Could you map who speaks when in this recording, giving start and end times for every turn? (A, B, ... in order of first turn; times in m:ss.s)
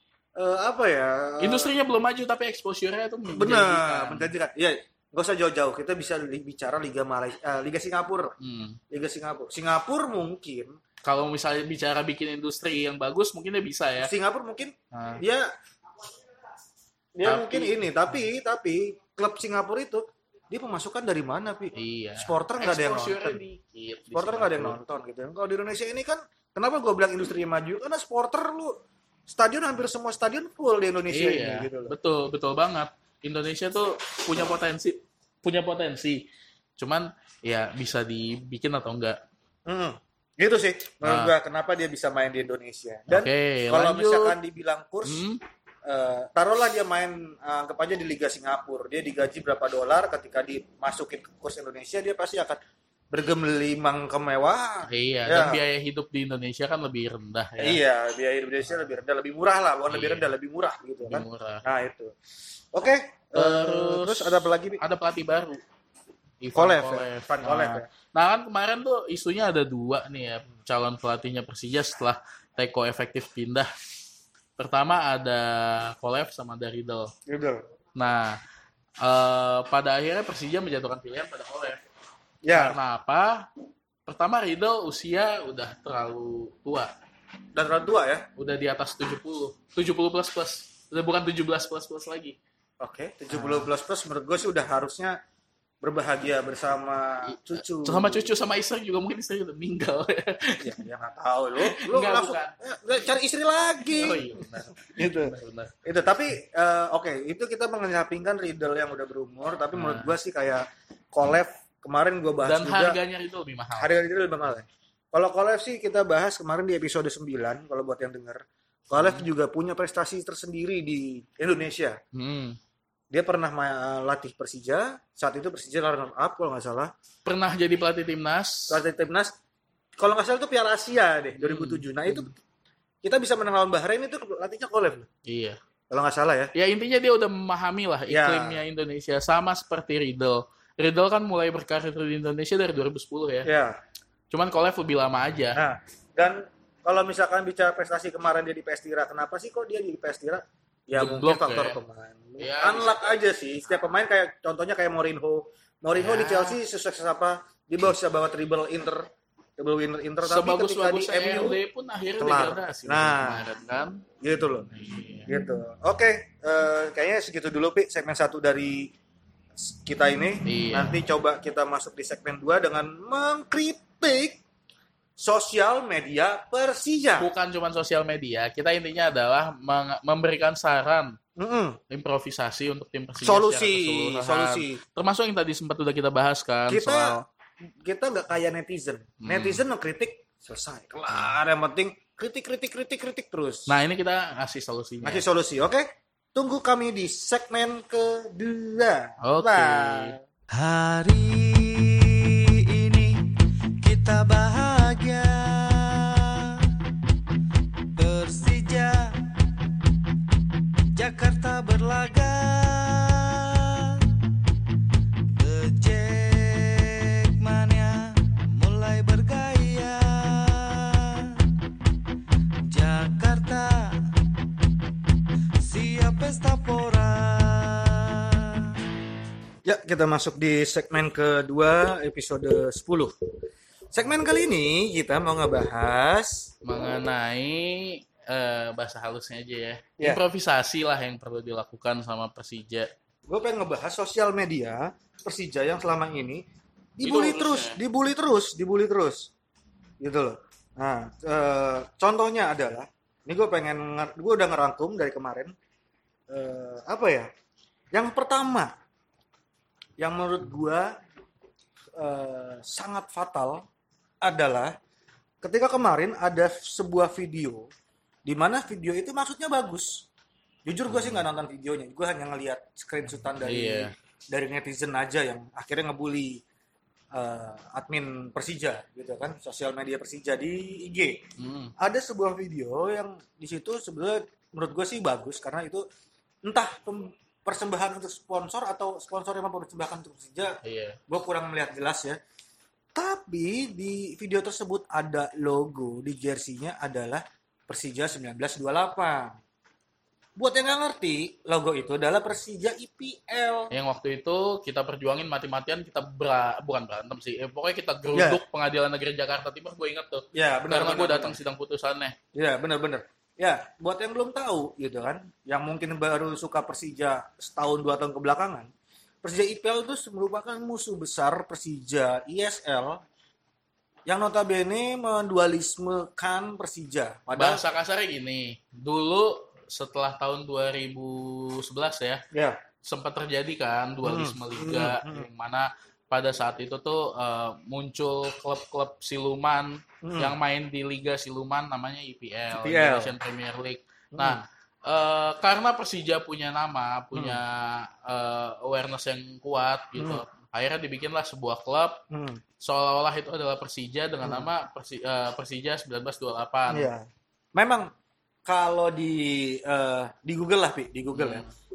0:00.4-0:01.7 A
0:01.4-0:04.3 B
0:03.3-0:08.4 A
0:08.4-0:08.8 B
0:08.9-0:10.8 A
0:11.0-0:14.1 B
0:14.0-0:15.5 A
0:14.9-0:15.2 B
0:17.2-0:23.4 A
0:17.2-0:17.9 B
0:21.7-0:24.8 B
0:24.1-0:31.9 A
0:31.1-0:36.3 B
0:36.8-0:39.2 B
0:39.7-0:45.2 A
0:41.0-0:41.3 B
0:43.1-0:44.4 B
0:45.0-0:45.4 B
0:45.8-0:52.6 A
0:53.1-0:55.6 A
0:54.9-0:57.8 B
0:57.6-1:02.1 A
0:59.9-1:00.3 B
1:01.0-1:01.6 B
1:02.7-1:04.8 A
1:03.3-1:05.6 B
1:06.4-1:13.7 B
1:06.5-1:07.9 A
1:14.6-1:17.1 B
1:17.3-1:17.6 A
1:17.9-1:18.4 B
1:19.0-1:21.8 B
1:22.4-1:22.8 A
1:22.5-1:23.5 B
1:24.0-1:26.9 B
1:27.5-1:28.3 A
1:28.4-1:32.4 B
1:32.8-1:35.2 A
1:33.3-1:33.7 B
1:35.8-1:38.3 A
1:37.3-1:40.8 B
1:40.6-1:45.3 A
1:41.6-1:42.5 B
1:43.8-1:45.7 B
1:45.8-1:53.0 A
1:49.7-1:50.1 B
1:52.4-1:53.9 B
1:53.8-2:02.0 A
1:59.0-1:59.2 B
2:02.1-2:02.6 B
2:03.1-2:06.9 A
2:07.2-2:08.8 B
2:08.7-2:09.3 A
2:10.0-2:12.4 A
2:11.4-2:12.3 B
2:13.0-2:15.1 A
2:15.2-2:15.6 B
2:15.9-2:16.5 A
2:16.5-2:23.5 B
2:18.1-2:18.6 A
2:23.4-2:23.8 A
2:24.3-2:25.6 B
2:25.5-2:41.6 A
2:30.9-2:31.8 B
2:32.4-2:33.2 B
2:36.0-2:36.6 B
2:40.2-2:44.0 B
2:42.2-2:43.5 A
2:44.2-2:44.7 A
2:44.7-2:45.3 B
2:45.3-2:48.9 A
2:49.6-2:54.4 A
2:50.4-2:51.0 B
2:55.2-2:57.3 A
2:57.2-3:01.2 B
3:01.4-3:01.8 A
3:01.9-3:07.2 B
3:03.2-3:04.8 A
3:06.7-3:13.7 A
3:09.2-3:09.6 B
3:13.7-3:15.2 B
3:15.0-3:20.2 A
3:19.2-3:20.2 B
3:20.5-3:23.2 C
3:23.8-3:26.7 C
3:28.0-3:29.2 C
3:30.9-3:34.1 C
3:35.3-3:41.4 C
3:42.7-3:44.0 C
3:45.6-3:48.8 C
3:49.6-3:53.1 A
3:53.9-3:56.5 A
3:56.6-4:02.9 B
4:03.3-4:06.4 A
4:07.0-4:09.3 A
4:07.0-4:07.8 B
4:10.0-4:15.5 A
4:16.3-4:17.3 A
4:17.9-4:18.7 A
4:20.0-4:21.0 A
4:22.0-4:23.6 A
4:24.2-4:24.7 A
4:25.4-4:27.7 A
4:28.2-4:30.1 A
4:30.6-4:36.4 A
4:30.9-4:31.2 B
4:33.4-4:33.9 B
4:37.1-4:41.2 A
4:41.4-4:41.7 B
4:41.8-4:45.8 A
4:46.4-4:52.2 A
4:50.6-4:51.0 B
4:52.9-4:59.4 A
5:00.4-5:03.7 A
5:03.7-5:12.2 B
5:08.1-5:08.4 A
5:10.3-5:11.4 A
5:12.3-5:18.7 A
5:19.2-5:23.0 A
5:24.1-5:27.6 A
5:27.4-5:32.2 B
5:32.3-5:32.6 A
5:32.8-5:52.0 B
5:34.0-5:35.3 A
5:40.0-5:40.3 A
5:42.5-5:43.1 A
5:44.1-5:44.4 A
5:47.1-5:47.4 A
5:50.0-5:50.2 A
5:52.1-5:52.4 A
5:52.6-5:56.9 B
5:54.2-5:54.5 A
5:56.7-5:57.9 A
5:58.4-6:01.4 A
6:01.1-6:01.5 B